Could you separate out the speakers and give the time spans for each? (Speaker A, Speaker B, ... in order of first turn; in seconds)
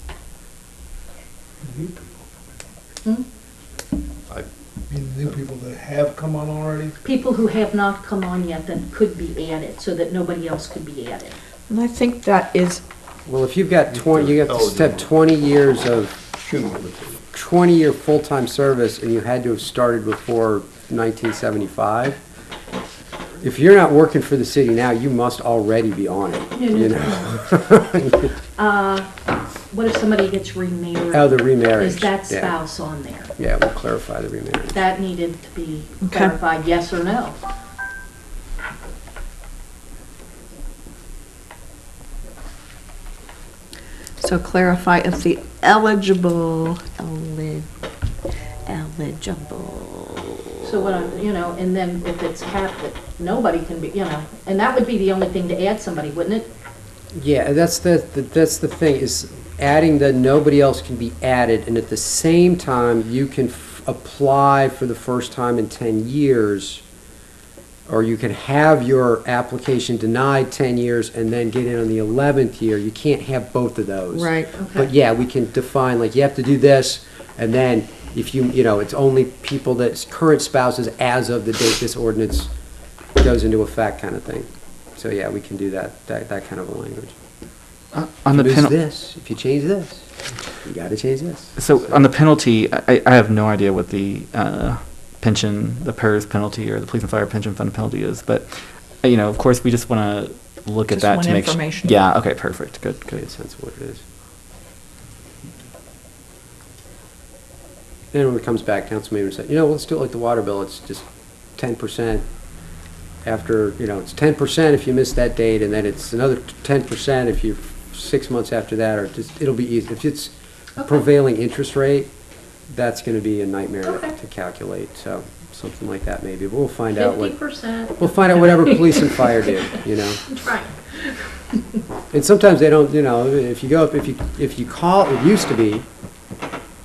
Speaker A: 1.6-1.9, 4.9-6.9
Speaker B: 7.0-11.3, 26.5-27.3, 28.6-29.1, 29.7-33.3, 34.7-37.4, 50.6-56.5, 74.6-74.9, 123.8-124.2, 126.9-129.2, 130.3-130.8
Speaker C: 11.7-12.8, 36.0-36.3, 44.2-47.7, 48.6-50.7, 74.1-74.5, 100.9-101.9
Speaker D: 13.2-16.2, 17.3-22.2, 23.4-28.3, 31.1-32.6, 33.4-34.8, 57.1-66.8, 67.9-82.5, 83.2-87.1, 88.3-91.9, 103.1-104.0, 108.1-112.2, 113.2-122.1, 122.7-130.4, 132.1-135.8
Speaker E: 13.9-15.2, 16.4-17.2
Speaker F: 87.9-88.7, 91.5-103.2